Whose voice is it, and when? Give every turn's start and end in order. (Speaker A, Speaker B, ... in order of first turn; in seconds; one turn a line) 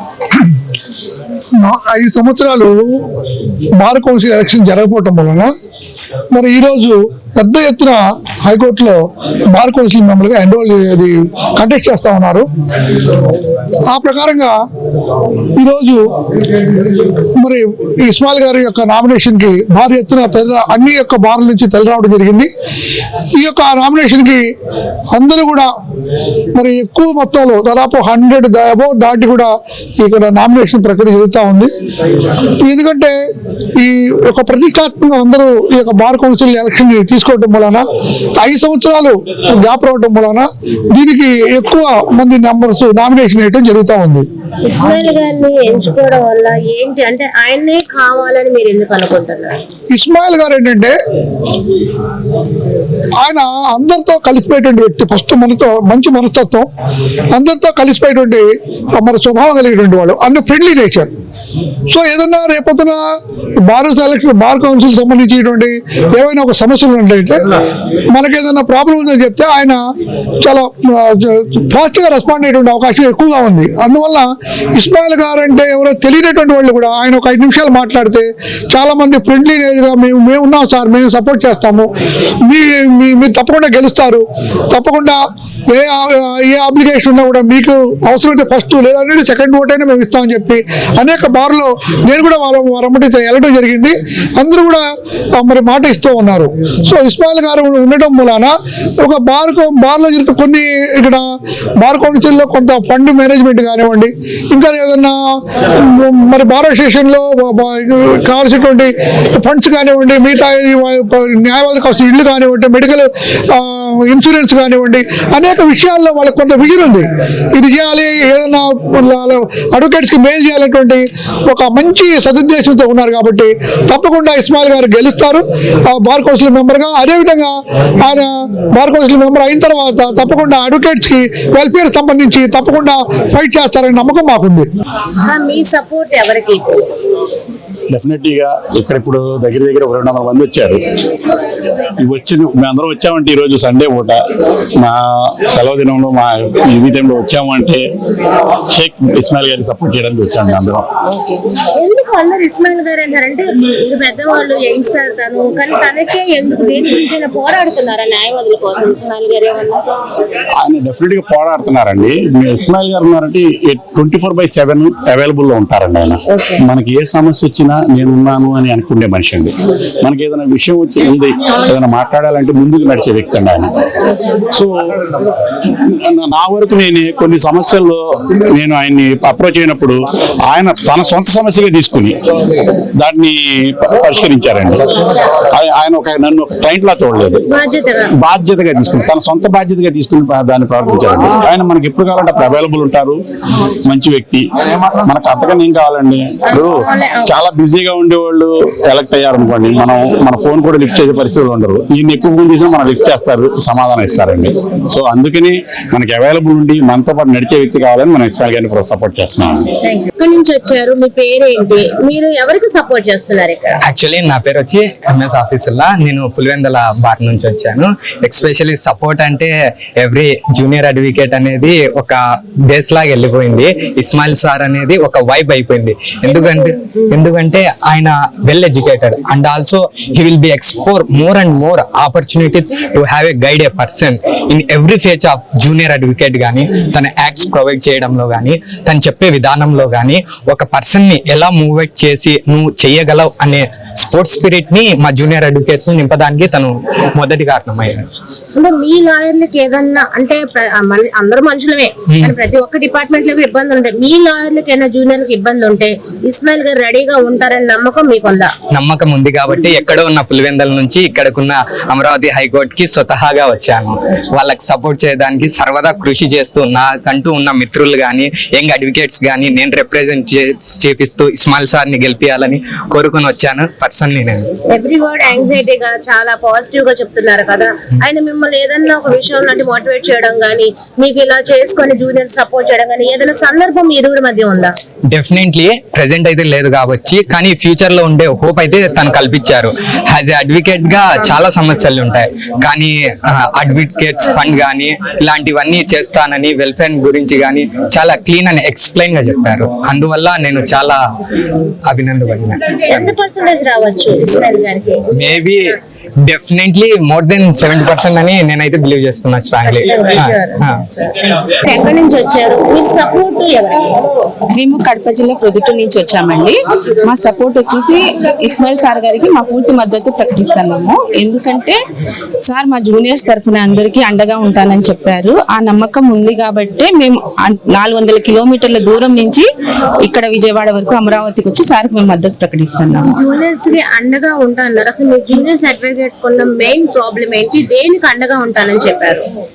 Speaker A: 1.6-3.0
Speaker A: 3.8-5.5
Speaker A: 6.3-12.5
Speaker A: 13.9-14.6
Speaker A: 15.6-16.0
Speaker A: 17.3-22.5
Speaker A: 23.3-24.5
Speaker A: 25.1-25.7
Speaker A: 26.5-31.7
Speaker A: 32.6-33.1
Speaker A: 33.8-37.8
Speaker A: 38.4-44.2
Speaker B: 44.6-49.6
Speaker A: 49.9-51.0
Speaker A: 53.2-56.7
Speaker A: 57.3-61.1
Speaker A: 61.9-63.0
Speaker A: 63.6-67.4
Speaker A: 68.1-69.8
Speaker A: 70.4-81.9
Speaker A: 82.4-134.7
Speaker B: 135.2-136.8
Speaker C: 137.9-140.8
Speaker C: 142.0-144.2
Speaker C: 144.8-147.8
Speaker C: 148.7-150.8
Speaker B: 151.1-159.8
Speaker C: 160.6-173.7
Speaker B: 166.3-166.6
Speaker C: 176.1-182.2
Speaker C: 183.0-184.9
Speaker C: 185.5-187.4
Speaker B: 187.5-188.1
Speaker C: 188.2-193.2
Speaker C: 193.9-194.4
Speaker C: 195.1-196.7
Speaker B: 196.5-197.4
Speaker C: 197.2-209.7
Speaker B: 209.8-213.8
Speaker D: 213.8-248.0
Speaker B: 248.6-258.5
Speaker D: 258.7-274.5
Speaker B: 274.7-284.7
Speaker D: 285.1-301.0
Speaker D: 301.9-303.1
Speaker B: 302.8-305.1
Speaker D: 305.1-305.6
Speaker D: 306.3-310.7
Speaker B: 309.6-314.0
Speaker E: 314.5-321.8
Speaker E: 322.4-329.4
Speaker E: 330.0-333.1
Speaker B: 333.0-339.2